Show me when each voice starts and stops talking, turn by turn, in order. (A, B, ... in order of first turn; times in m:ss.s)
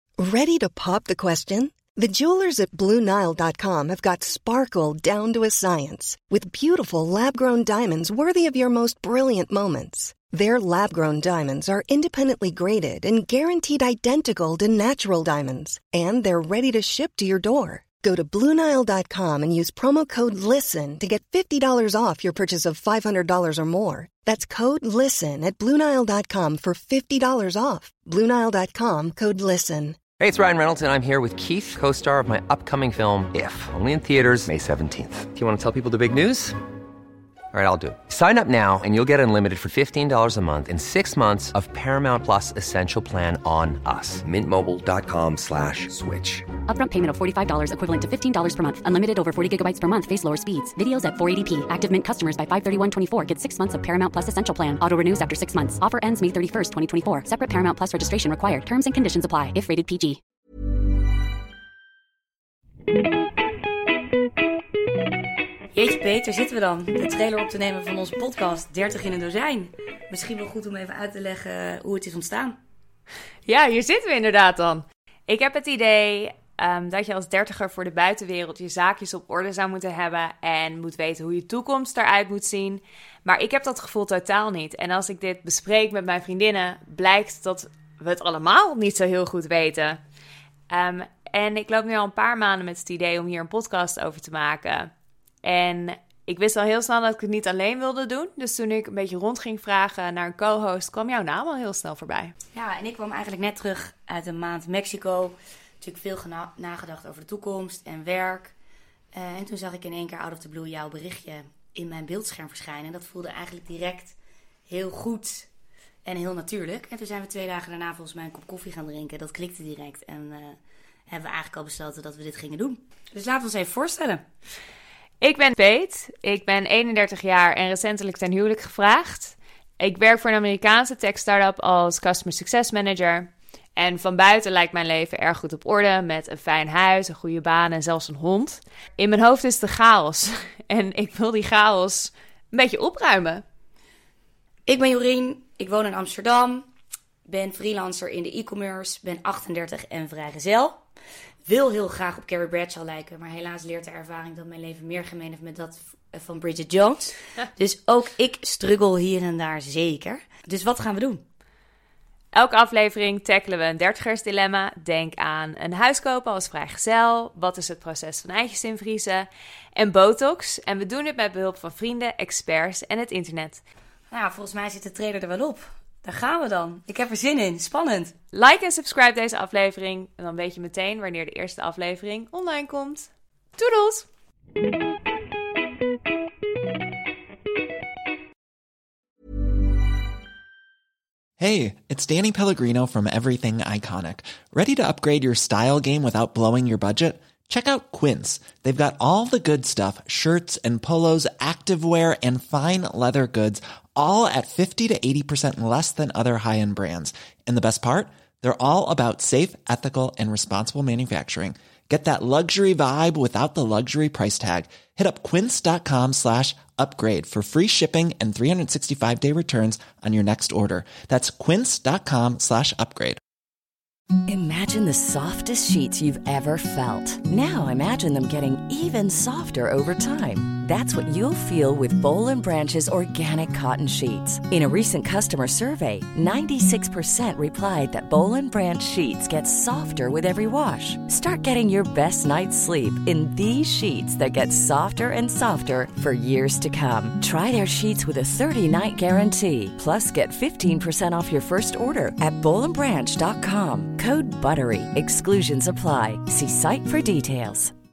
0:00.2-0:30.0 A
0:30.2-0:36.6 B
0:37.5-0:46.4 B
0:46.7-1:00.2 C
1:05.7-1:12.6 D
1:13.5-1:30.0 E
1:30.7-1:34.9 E
1:35.4-1:42.3 E
1:42.5-1:48.6 D
1:49.1-1:54.2 D
1:54.7-1:55.5 D
1:56.0-2:04.2 D
2:05.2-2:23.4 E
2:24.7-2:26.7 D
2:27.3-2:30.8 D
2:31.5-2:41.2 D
2:42.4-2:53.6 E
2:54.1-2:58.2 D
2:58.3-3:04.0 E
3:11.4-3:43.2 F
3:44.3-4:17.7 G